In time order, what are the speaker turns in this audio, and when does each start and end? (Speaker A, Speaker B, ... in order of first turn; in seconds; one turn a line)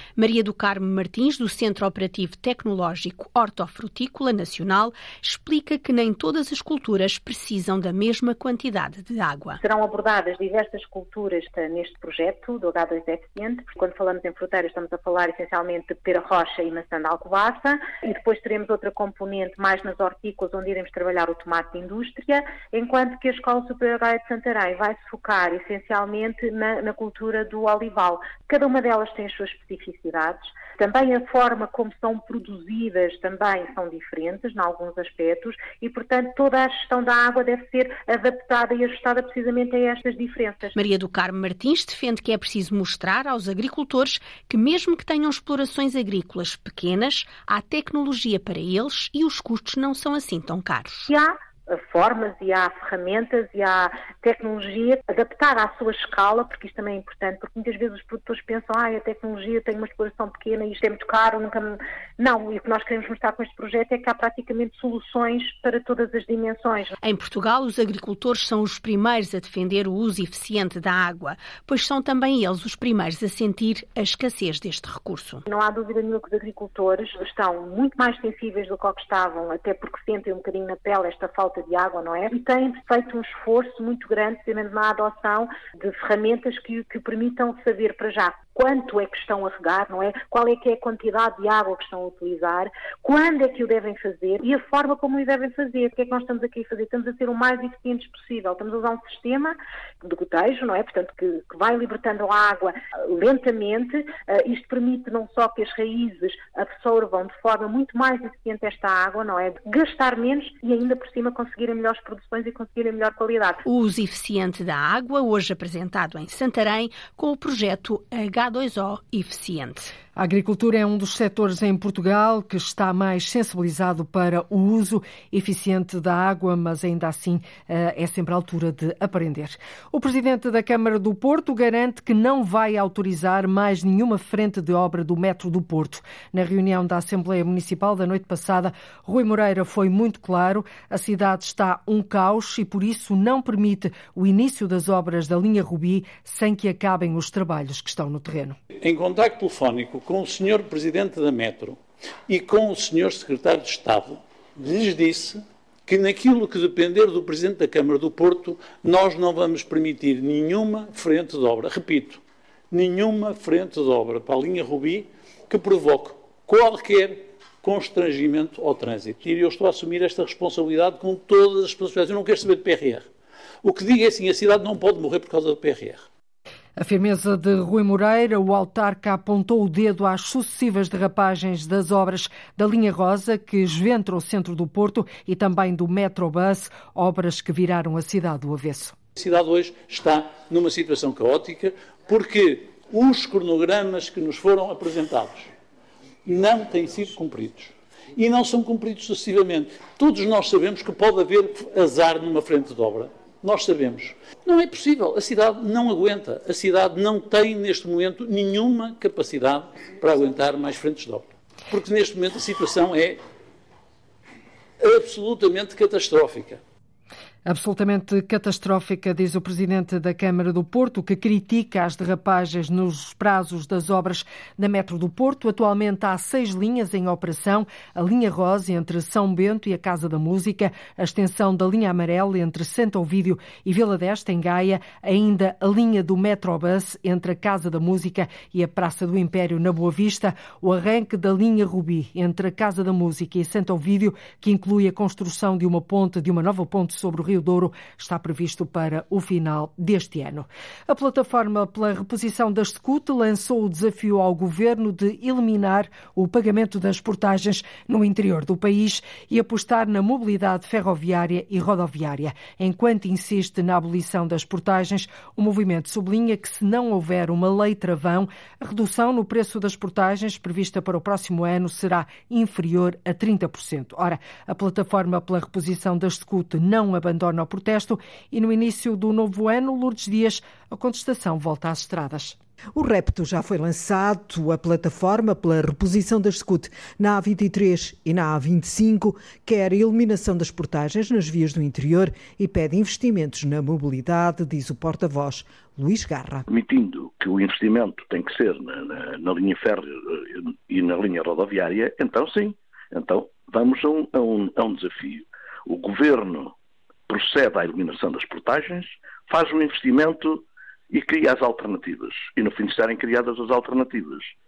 Speaker A: 0.2-9.6
Speaker B: 9.6-40.8
Speaker A: 40.7-51.1
Speaker B: 51.1-66.9
Speaker A: 67.0-75.4
Speaker B: 75.5-113.6
Speaker A: 113.7-119.9
Speaker C: 120.2-148.6
Speaker D: 148.8-173.1
Speaker D: 173.6-176.1
Speaker C: 176.8-188.9
Speaker D: 189.2-195.5
Speaker D: 196.2-213.2
Speaker D: 214.8-216.6
Speaker C: 217.4-282.4
Speaker E: 282.7-296.4
Speaker F: 296.5-306.5
Speaker F: 307.1-314.3